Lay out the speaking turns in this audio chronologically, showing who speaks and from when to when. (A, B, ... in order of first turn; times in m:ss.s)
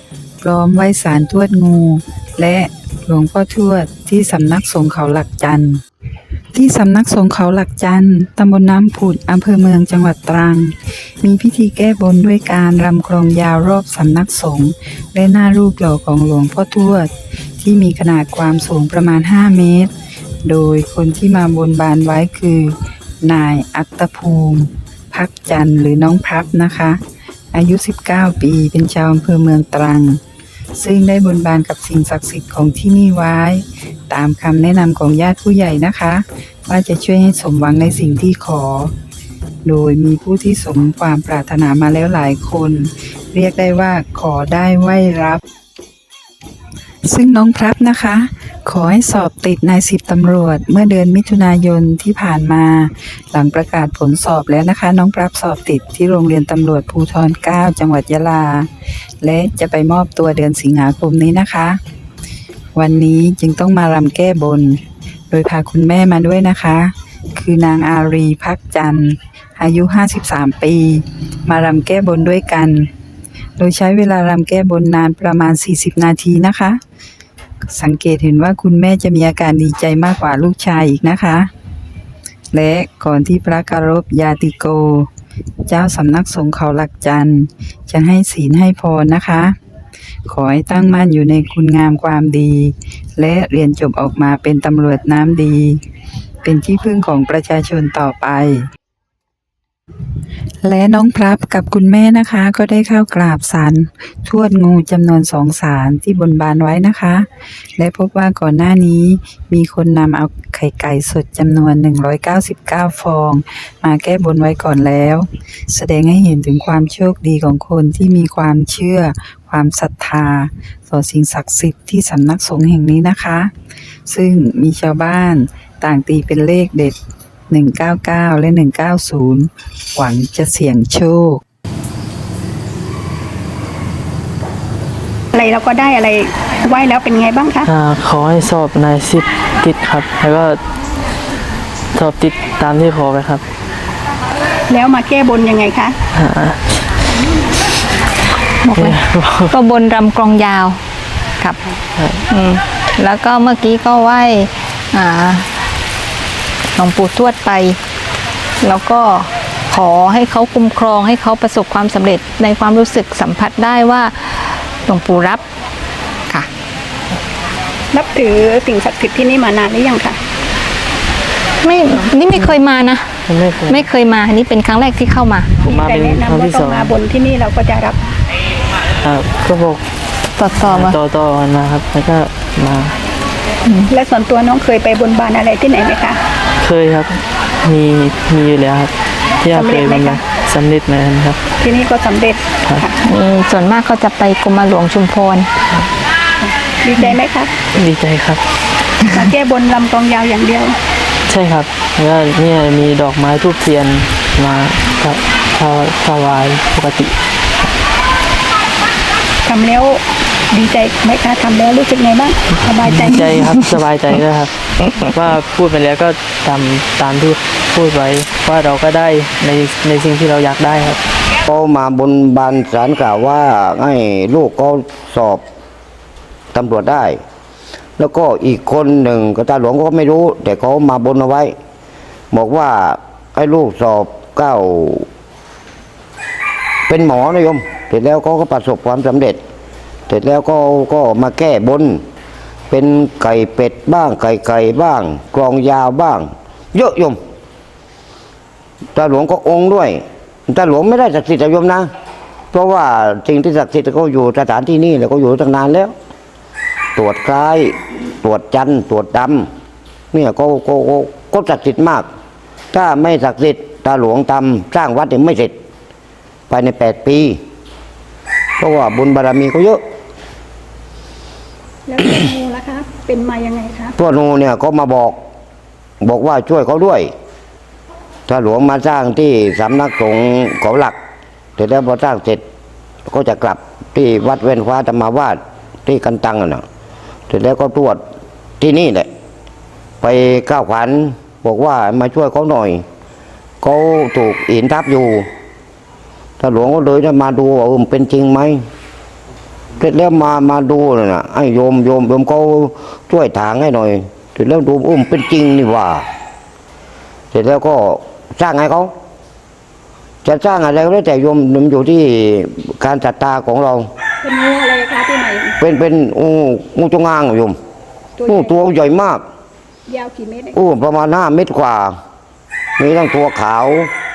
0:00.4-0:05.8 A
0:06.5-0:19.9 A
0:20.4-0:27.0 A
0:27.5-0:30.2 A
0:30.8-0:38.9 A
0:39.6-0:45.4 A
0:47.0-0:58.7 A
0:59.2-1:01.8 A
1:02.7-1:12.9 A
1:13.6-1:16.8 A
1:17.6-1:21.5 A
1:22.5-1:25.1 A
1:25.7-1:29.6 A
1:30.3-1:35.8 A
1:36.4-1:38.7 A
1:40.6-2:03.5 A
2:04.0-2:07.0 A
2:07.5-2:11.4 A
2:15.3-2:17.7 B
2:17.6-2:20.6 C
2:21.9-2:23.4 C
2:24.7-2:26.0 B
2:26.1-2:26.9 C
2:28.6-2:30.8 D
2:28.7-2:29.5 C
2:31.4-2:31.7 D
2:32.0-2:32.2 C
2:32.3-2:35.5 D
2:36.8-2:37.8 D
2:38.6-2:45.4 D
2:47.9-2:50.2 B
2:51.6-2:53.1 D
2:53.3-2:53.9 C
2:53.7-2:55.6 D
2:55.6-2:58.0 B
2:55.6-2:57.0 C
2:59.0-2:59.8 C
3:00.4-3:01.0 D
3:00.6-3:03.0 C
3:03.6-3:03.9 D
3:03.9-3:06.2 B
3:06.6-3:11.4 C
3:09.5-3:10.2 B
3:11.6-3:13.0 B
3:13.0-3:15.5 D
3:16.4-3:17.5 B
3:17.7-3:18.4 C
3:19.1-3:20.8 B
3:21.3-3:27.2 C
3:29.4-3:33.5 B
3:32.8-3:41.0 C
3:41.4-3:45.4 E
3:46.5-3:47.2 E
3:48.0-3:51.5 E
3:52.3-3:55.1 E
3:56.9-3:59.4 E
4:00.1-4:02.0 E
4:02.7-4:07.2 E
4:08.9-4:11.9 E
4:12.5-4:15.9 E
4:17.0-4:19.5 E
4:20.1-4:22.0 E
4:22.7-4:25.5 E
4:26.5-4:27.4 E
4:28.6-4:29.8 E
4:31.9-4:33.9 B
4:34.0-4:35.2 E
4:36.0-4:37.1 E
4:38.3-4:41.0 E
4:41.6-4:42.4 E
4:43.1-4:46.6 E
4:47.3-4:48.0 E
4:48.6-4:49.1 E
4:50.0-4:52.8 E
4:53.6-4:55.3 E
4:56.4-4:58.6 E
4:59.8-5:06.0 E
5:07.3-5:08.9 E
5:10.2-5:13.9 E
5:14.2-5:15.5 B
5:15.6-5:17.6 E
5:18.2-5:18.6 B
5:18.3-5:19.2 E
5:19.9-5:20.6 B
5:20.5-5:22.0 E
5:22.8-5:23.9 E